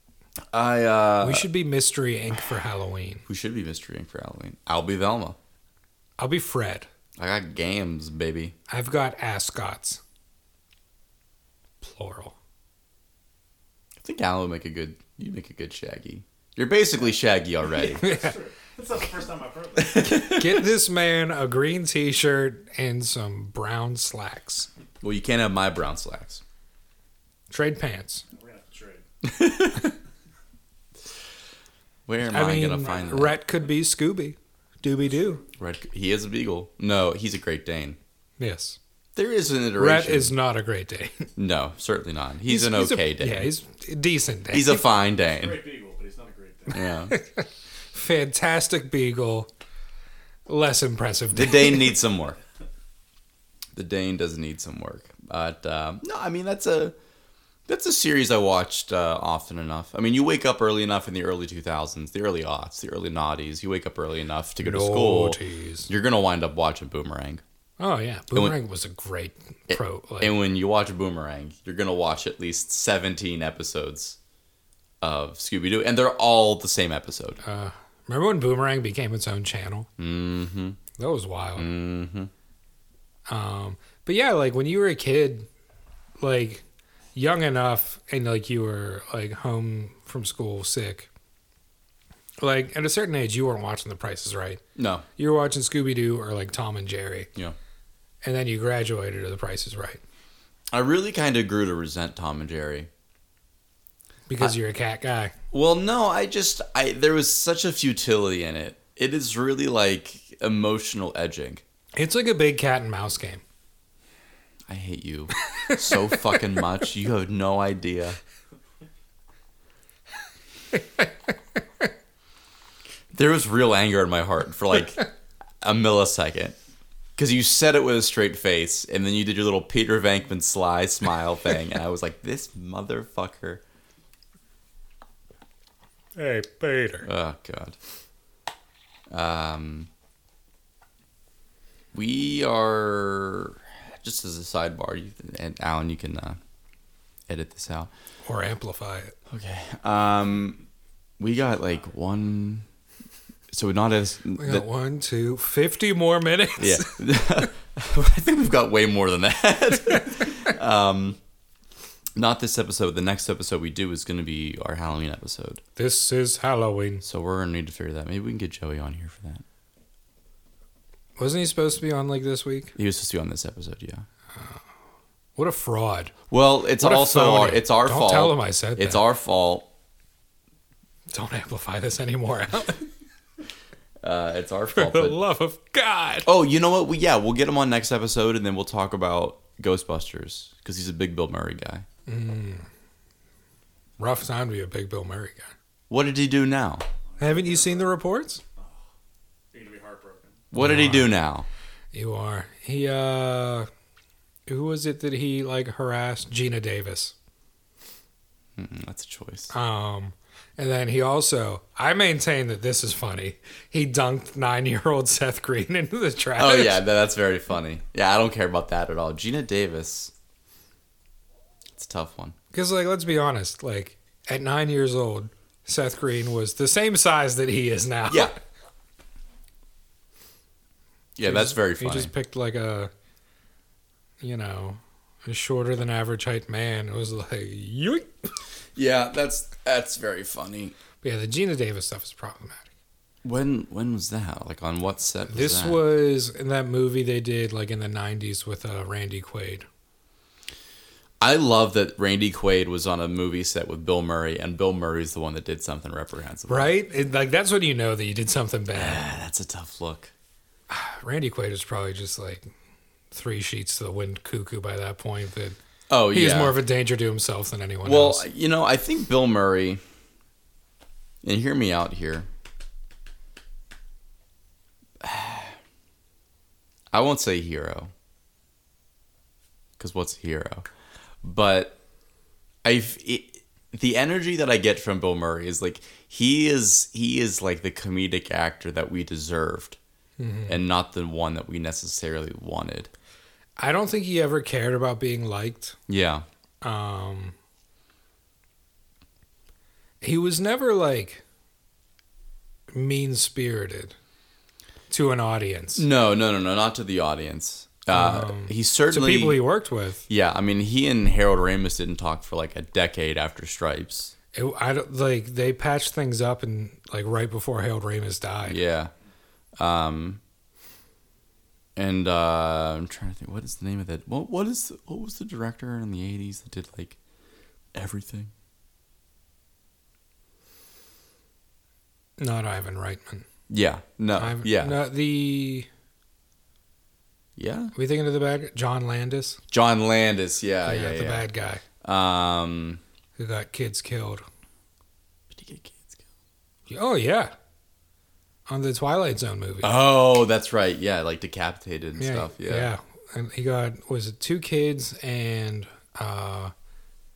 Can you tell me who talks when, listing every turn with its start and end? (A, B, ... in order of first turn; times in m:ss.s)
0:00.5-0:01.5 A
0:01.2-0:03.2 B
0:03.3-0:05.4 A
0:06.2-0:06.9 B
0:07.2-0:08.5 A
0:08.7-0:10.0 B
0:11.8-0:12.4 B
0:14.0-0:18.1 A
0:17.7-0:20.1 C
0:18.0-0:18.3 B
0:19.8-0:24.7 B
0:19.9-0:20.7 A
0:25.0-0:26.4 A
0:27.5-0:28.2 B
0:28.3-0:29.0 C
0:29.2-0:29.9 A
0:32.1-0:33.4 A
0:32.2-0:35.4 B
0:35.6-0:38.0 A
0:38.4-0:38.8 B
0:39.2-0:40.3 A
0:39.8-0:41.3 B
0:41.4-0:43.5 A
0:42.5-0:44.8 B
0:44.5-0:45.6 A
0:45.3-0:46.9 C
0:46.7-0:47.1 A
0:47.1-0:49.5 B
0:50.5-0:52.0 B
0:51.3-0:52.4 A
0:53.7-0:56.9 A
0:57.7-1:07.4 A
1:04.6-1:05.9 B
1:07.8-1:10.3 B
1:09.7-1:14.2 A
1:15.0-1:17.4 A
1:17.4-1:19.9 B
1:20.0-1:20.8 A
1:21.0-1:21.7 B
1:21.6-1:22.3 A
1:23.3-1:25.5 B
1:26.2-1:26.6 B
1:27.1-1:31.1 B
1:32.4-1:34.6 B
1:34.8-1:35.0 A
1:35.2-1:37.3 B
1:38.2-1:40.0 B
1:40.7-1:42.9 A
1:44.3-1:45.3 B
1:45.5-1:51.6 A
1:52.0-1:53.4 B
1:54.7-1:58.2 A
1:55.6-1:55.9 B
2:03.1-2:06.6 A
2:07.2-2:13.6 A
2:16.2-2:17.1 B
2:17.0-2:17.8 A
2:19.1-2:19.9 A
2:21.9-2:26.4 A
2:27.3-2:27.9 A
2:28.2-2:29.1 B
2:29.3-2:30.6 A
2:31.2-2:32.6 A
2:33.5-2:34.6 A
2:34.4-2:37.0 B
2:36.6-2:41.2 A
2:42.2-2:45.6 A
2:45.8-2:47.0 B
2:47.0-2:49.4 A
2:51.2-2:52.7 B
2:52.8-2:54.0 A
2:55.4-2:56.1 B
2:56.3-2:59.7 A
2:56.8-2:59.0 B
3:01.1-3:02.9 B
3:04.0-3:05.2 A
3:04.8-3:06.3 B
3:06.2-3:11.8 A
3:12.1-3:12.7 B
3:14.0-3:15.5 B
3:15.9-3:16.8 A
3:17.1-3:17.9 C
3:17.2-3:18.4 B
3:18.6-3:18.8 C
3:19.5-3:20.4 C
3:20.5-3:21.5 A
3:20.6-3:21.1 B
3:21.9-3:23.7 B
3:24.5-3:27.1 B
3:28.6-3:29.5 A
3:29.5-3:36.8 B
3:36.4-3:40.1 A
3:41.7-3:42.4 A
3:42.5-3:48.4 B
3:48.1-3:48.3 A
3:51.2-3:52.1 A
3:51.2-3:52.9 B
3:54.2-3:58.3 B
3:58.7-4:00.7 A
4:01.0-4:02.7 B
4:03.2-4:05.8 A
4:05.3-4:09.6 B
4:11.2-4:16.7 A
4:16.5-4:19.0 B
4:18.7-4:20.1 A
4:20.7-4:22.5 B
4:23.1-4:25.6 B
4:25.9-4:26.6 A
4:26.1-4:28.2 B
4:27.8-4:29.8 A
4:31.2-4:32.3 A
4:35.0-4:35.6 A
4:36.9-4:37.9 A
4:39.8-4:40.6 A
4:41.2-4:41.8 A
4:42.6-4:49.8 A
4:50.2-4:50.6 B
4:50.5-4:52.9 A
4:53.6-4:55.8 B
4:55.9-4:56.2 A
4:56.6-4:57.3 B
5:00.0-5:01.2 B
5:02.7-5:04.0 B
5:04.9-5:05.8 B
5:05.8-5:09.4 A
5:07.9-5:10.0 B
5:10.1-5:14.1 A
5:14.3-5:18.6 B
5:18.4-5:18.9 A
5:19.6-5:20.2 A
5:21.8-5:27.0 A
5:27.7-5:28.3 A
5:32.2-5:33.2 B
5:33.5-5:34.8 A
5:34.2-5:35.7 B
5:37.4-5:37.7 A
5:37.7-5:39.4 B
5:39.5-5:41.3 A
5:40.6-5:41.6 B
5:41.8-5:42.8 A
5:43.2-5:44.2 B
5:45.3-5:46.1 A
5:46.7-5:47.3 B
5:48.5-5:49.7 B
5:49.6-5:52.7 A
5:52.0-5:56.5 B